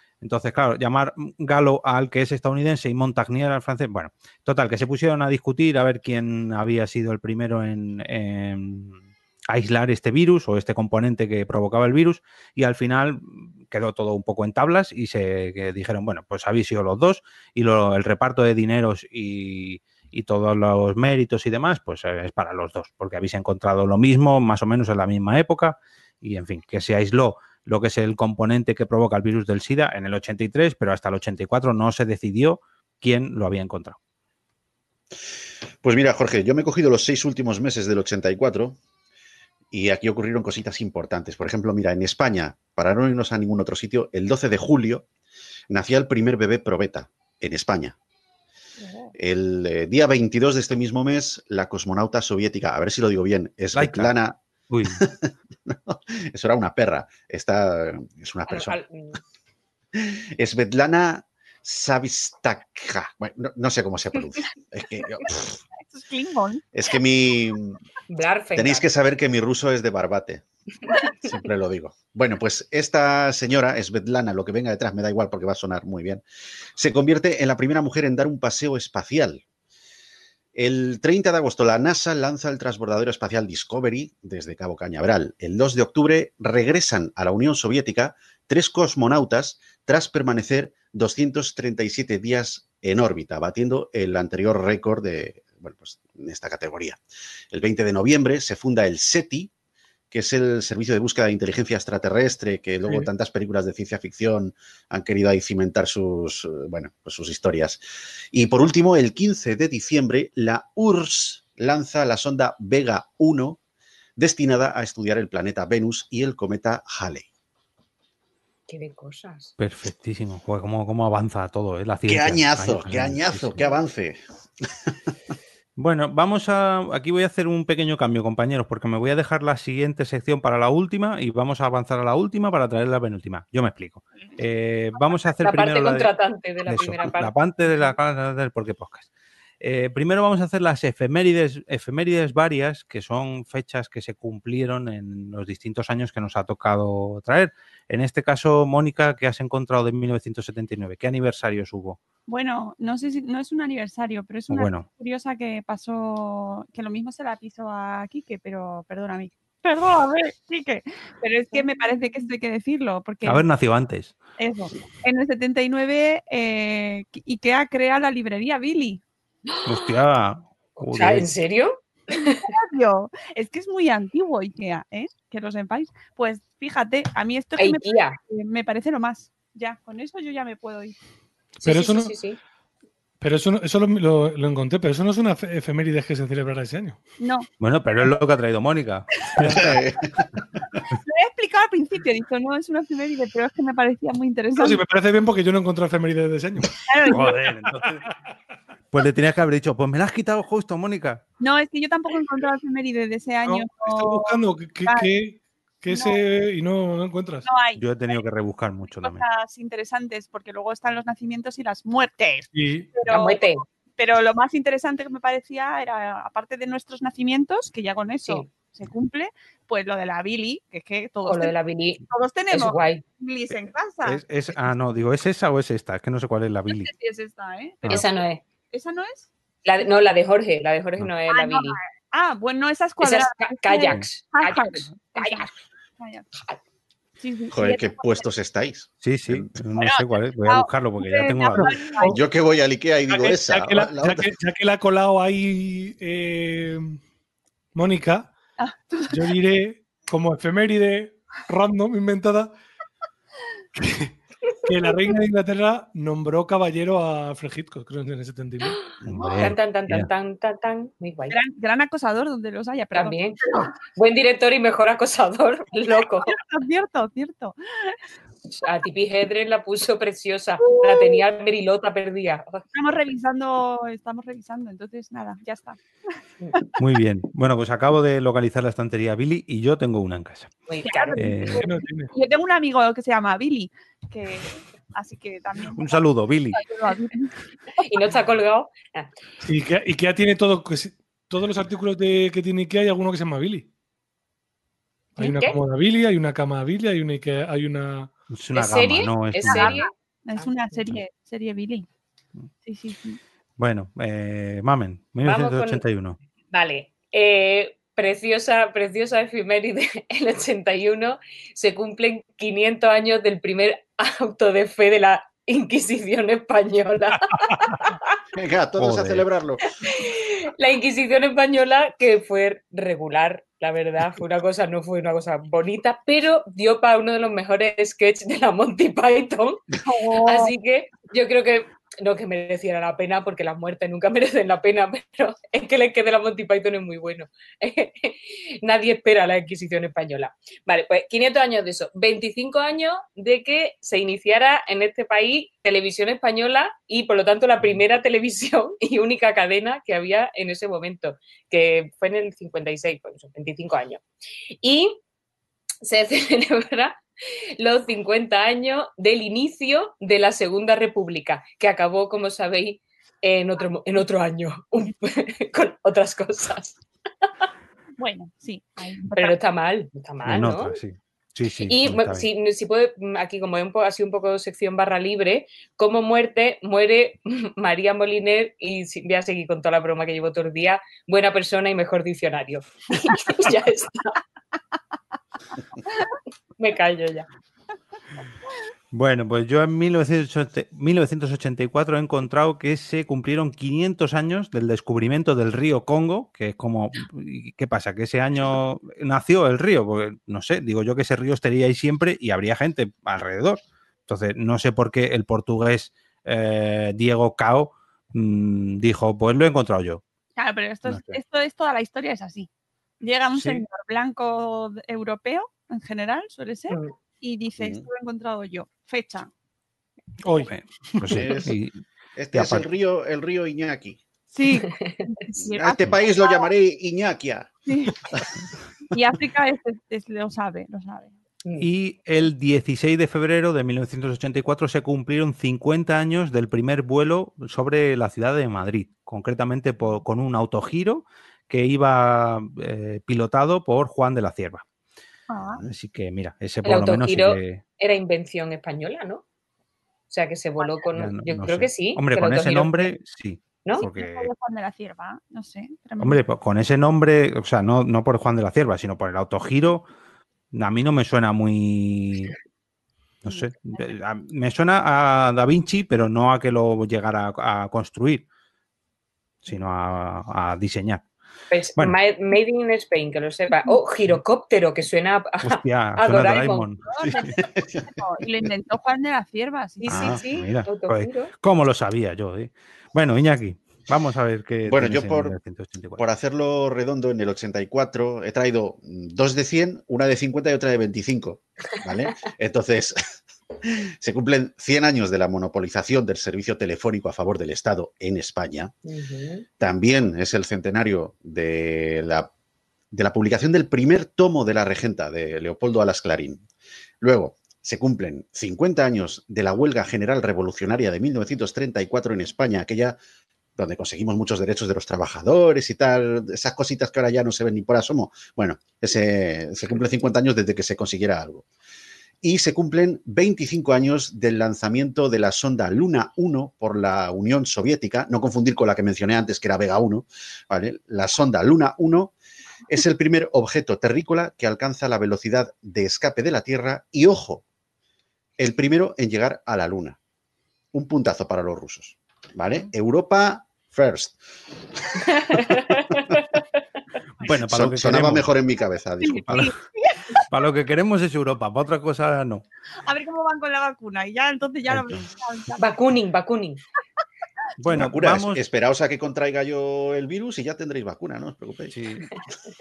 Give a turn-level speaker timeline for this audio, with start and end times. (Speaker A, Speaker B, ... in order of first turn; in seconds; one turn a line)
Speaker A: 0.2-34.0
Speaker B: 35.8-38.8
Speaker B: 39.7-45.1
Speaker B: 45.7-48.0
Speaker C: 48.8-49.1
Speaker B: 49.2-58.8
Speaker A: 53.8-54.1
Speaker A: 54.7-55.0
Speaker D: 58.5-59.2
Speaker B: 59.9-65.6
Speaker C: 65.8-66.6
Speaker B: 66.7-67.8
Speaker D: 68.1-68.9
Speaker B: 68.5-70.4
Speaker B: 71.2-76.2
Speaker B: 76.8-79.4
Speaker B: 80.6-99.5
Speaker B: 100.1-107.8
Speaker B: 108.3-113.6
Speaker B: 114.2-117.3
Speaker D: 118.7-119.5
Speaker A: 119.6-123.6
Speaker B: 122.1-125.1
Speaker A: 125.8-136.1
Speaker D: 135.4-137.9
Speaker A: 136.7-139.1
Speaker A: 139.6-152.0
Speaker C: 152.3-163.5
Speaker A: 154.5-154.9
Speaker A: 163.2-164.2
Speaker C: 164.4-169.0
Speaker D: 169.5-170.0
Speaker A: 169.7-171.3
Speaker D: 170.8-172.5
Speaker C: 172.1-181.0
Speaker D: 177.6-178.2
Speaker E: 181.6-182.2
Speaker D: 181.6-182.4
Speaker E: 183.2-187.0
Speaker C: 187.2-187.5
Speaker A: 187.6-189.8
Speaker E: 189.4-189.7
Speaker B: 189.5-190.4
Speaker C: 191.0-194.8
Speaker E: 194.6-198.1
Speaker C: 196.9-197.4
Speaker A: 197.1-198.1
Speaker A: 198.9-201.2
Speaker C: 201.4-205.1
Speaker E: 203.5-207.5
Speaker C: 205.9-206.2
Speaker C: 207.4-208.2
Speaker A: 207.8-209.2
Speaker C: 209.0-221.5
Speaker E: 212.5-212.9
Speaker D: 213.1-213.6
Speaker D: 221.3-223.0
Speaker C: 222.1-224.2
Speaker A: 224.1-226.9
Speaker C: 226.7-229.3
Speaker D: 227.9-228.4
Speaker D: 229.7-231.8
Speaker C: 231.3-236.3
Speaker D: 233.0-235.6
Speaker C: 237.2-238.2
Speaker B: 237.5-239.5
Speaker A: 239.0-241.8
Speaker C: 239.8-242.2
Speaker E: 241.6-242.2
Speaker B: 242.1-244.3
Speaker E: 243.1-247.0
Speaker E: 247.8-248.3
Speaker C: 248.6-249.2
Speaker E: 249.1-252.5
Speaker E: 253.8-254.1
Speaker E: 254.7-258.8
Speaker D: 258.8-261.4
Speaker A: 259.0-260.1
Speaker C: 261.3-263.7
Speaker D: 262.9-266.4
Speaker C: 266.0-268.0
Speaker D: 268.6-272.6
Speaker C: 270.7-271.2
Speaker C: 272.7-276.8
Speaker A: 276.8-280.5
Speaker D: 280.7-281.2
Speaker C: 280.9-287.8
Speaker A: 281.2-281.7
Speaker E: 281.6-282.1
Speaker A: 285.8-286.6
Speaker D: 287.8-289.1
Speaker E: 289.4-293.7
Speaker E: 295.2-298.1
Speaker D: 295.2-295.6
Speaker A: 298.3-299.8
Speaker D: 298.5-300.5
Speaker C: 299.4-301.9
Speaker C: 302.6-303.2
Speaker A: 303.6-306.2
Speaker D: 305.2-305.8
Speaker D: 306.5-318.0
Speaker B: 318.3-319.6
Speaker A: 318.8-319.2
Speaker D: 319.8-329.6
Speaker C: 329.8-330.5
Speaker D: 330.2-354.0
Speaker D: 354.6-355.0
Speaker D: 355.8-366.8
Speaker C: 368.0-369.4
Speaker D: 369.2-370.8
Speaker A: 370.2-372.3
Speaker D: 371.7-384.2
Speaker C: 385.9-386.1
Speaker D: 386.6-387.3
Speaker A: 388.9-410.0
Speaker C: 410.4-412.5
Speaker A: 410.9-411.2
Speaker C: 413.0-419.3
Speaker A: 413.4-413.6
Speaker B: 417.6-417.9
Speaker E: 420.2-421.1
Speaker A: 420.5-421.8
Speaker B: 421.1-421.6
Speaker B: 422.2-424.0
Speaker A: 422.3-422.7
Speaker C: 424.3-426.5
Speaker B: 425.5-427.5
Speaker C: 427.7-428.0
Speaker C: 428.9-431.1
Speaker A: 431.6-444.6
Speaker C: 445.3-445.6
Speaker A: 445.6-447.6
Speaker D: 446.6-449.2
Speaker D: 450.1-452.9
Speaker A: 450.9-454.3
Speaker C: 453.7-456.2
Speaker A: 456.0-459.9
Speaker A: 460.5-462.3
Speaker A: 463.2-468.2
Speaker C: 463.3-463.9
Speaker A: 469.4-471.1
Speaker D: 471.5-476.7
Speaker A: 475.4-477.3
Speaker C: 476.9-477.4
Speaker B: 477.2-478.0
Speaker C: 477.9-480.2
Speaker D: 479.8-481.3
Speaker A: 479.9-486.1
Speaker B: 484.7-485.4
Speaker B: 486.0-493.0
Speaker B: 493.6-498.7
Speaker D: 498.9-499.4
Speaker B: 499.6-502.3
Speaker B: 502.9-506.4
Speaker B: 507.0-513.0
Speaker B: 513.6-521.4
Speaker B: 522.2-532.1
Speaker B: 532.7-537.5
Speaker B: 538.4-540.0
Speaker B: 540.7-544.2
Speaker B: 544.9-546.0
Speaker D: 545.1-546.6
Speaker A: 547.2-548.3
Speaker B: 547.3-549.5
Speaker C: 549.0-550.3
Speaker A: 550.3-552.4
Speaker C: 552.8-555.7
Speaker D: 555.6-556.6
Speaker A: 557.6-558.4
Speaker B: 557.7-562.0
Speaker A: 561.7-562.0